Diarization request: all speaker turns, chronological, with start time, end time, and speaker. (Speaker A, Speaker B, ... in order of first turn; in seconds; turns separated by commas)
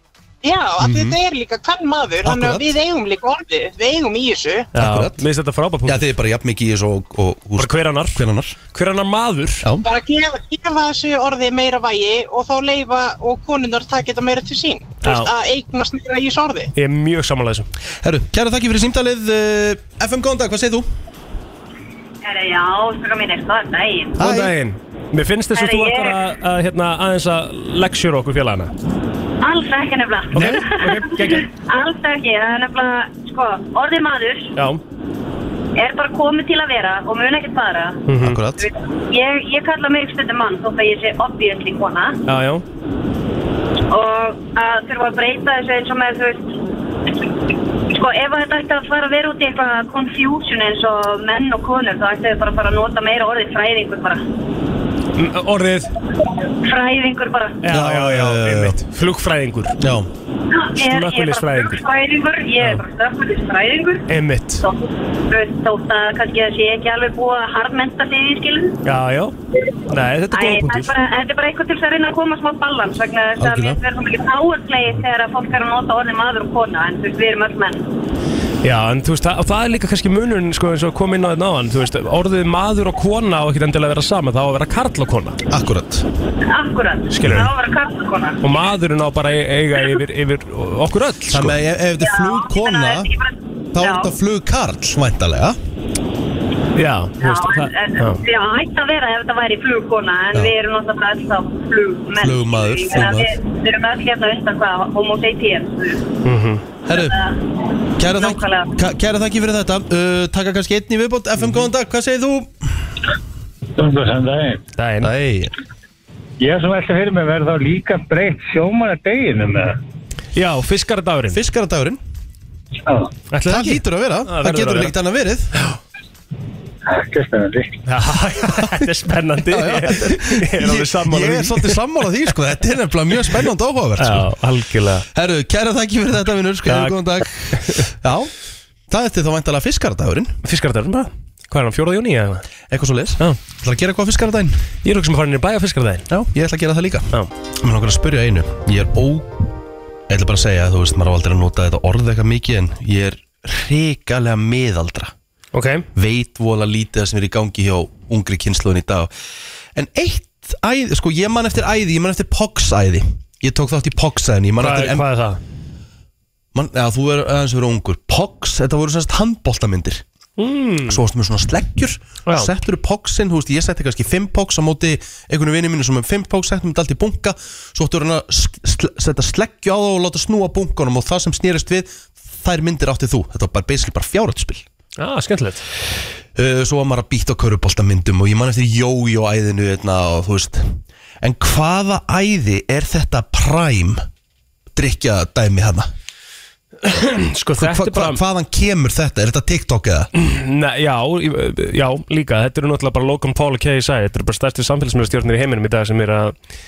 Speaker A: 0.4-4.7, Speaker B: 0.8-1.2, Speaker B: 2.2-2.7, Speaker C: 4.7-6.1, Speaker B: 4.7-5.2, Speaker B: 5.8-8.6, Speaker C: 7.6-8.2, Speaker C: 8.7-9.7, Speaker A: 9.8-16.7, Speaker C: 15.0-15.3, Speaker C: 16.7-17.7, Speaker B: 18.0-20.9, Speaker D: 22.2-24.1, Speaker B: 24.2-24.5, Speaker C: 24.2-28.7, Speaker D: 25.5-26.2, Speaker D: 29.4-34.5, Speaker C: 30.3-31.5, Speaker B: 30.4-30.6, Speaker C: 34.5-34.8, Speaker D: 35.8-38.0, Speaker C: 38.1-38.4, Speaker B: 38.2-38.7, Speaker D: 38.6-42.2, Speaker C: 42.3-42.6, Speaker D: 43.9-46.6, Speaker D: 47.9-54.2, Speaker C: 55.1-55.9, Speaker D: 56.6-57.6, Speaker C: 57.6-59.8, Speaker B: 57.7-58.8, Speaker B: 59.8-60.1, Speaker D: 60.5-64.0, Speaker C: 60.8-61.8, Speaker C: 64.1-64.6, Speaker D: 64.6-68.8, Speaker C: 68.8-69.3, Speaker C: 69.9-70.9, Speaker D: 70.3-77.8, Speaker B: 73.4-73.8, Speaker C: 78.6-85.4, Speaker B: 85.5-86.0, Speaker D: 86.5-88.4, Speaker C: 87.1-87.5, Speaker C: 88.4-91.6, Speaker B: 91.3-93.1, Speaker D: 92.0-94.1, Speaker B: 93.7-95.6, Speaker C: 96.7-98.2, Speaker D: 97.2-106.0, Speaker B: 102.2-103.3, Speaker C: 106.2-106.6, Speaker B: 106.8-107.2, Speaker D: 106.9-107.4, Speaker B: 108.0-112.5, Speaker D: 108.0-108.7, Speaker E: 113.8-114.6, Speaker C: 114.8-115.1, Speaker B: 115.0-115.5, Speaker E: 116.4-119.7, Speaker C: 120.3-121.4, Speaker B: 121.3-122.0, Speaker E: 122.8-123.1, Speaker C: 123.3-124.9, Speaker B: 123.4-125.5, Speaker E: 126.9-127.7, Speaker C: 127.8-131.8, Speaker B: 129.5-134.3, Speaker C: 134.0-135.1, Speaker B: 135.1-138.3, Speaker C: 136.7-137.0, Speaker C: 137.5-137.8, Speaker B: 138.9-140.3, Speaker C: 140.4-142.5, Speaker B: 142.7-144.7, Speaker C: 144.8-146.1, Speaker B: 146.1-149.4, Speaker B: 150.1-155.1, Speaker C: 155.5-155.9, Speaker B: 155.9-159.1, Speaker B: 159.7-165.1, Speaker C: 164.6-165.4, Speaker B: 166.5-170.0, Speaker C: 170.4-171.0, Speaker B: 170.9-184.6, Speaker C: 172.2-172.5, Speaker C: 185.0-185.6, Speaker B: 186.3-194.1, Speaker B: 194.7-195.9, Speaker C: 196.8-198.2, Speaker B: 197.6-200.1, Speaker C: 200.1-206.3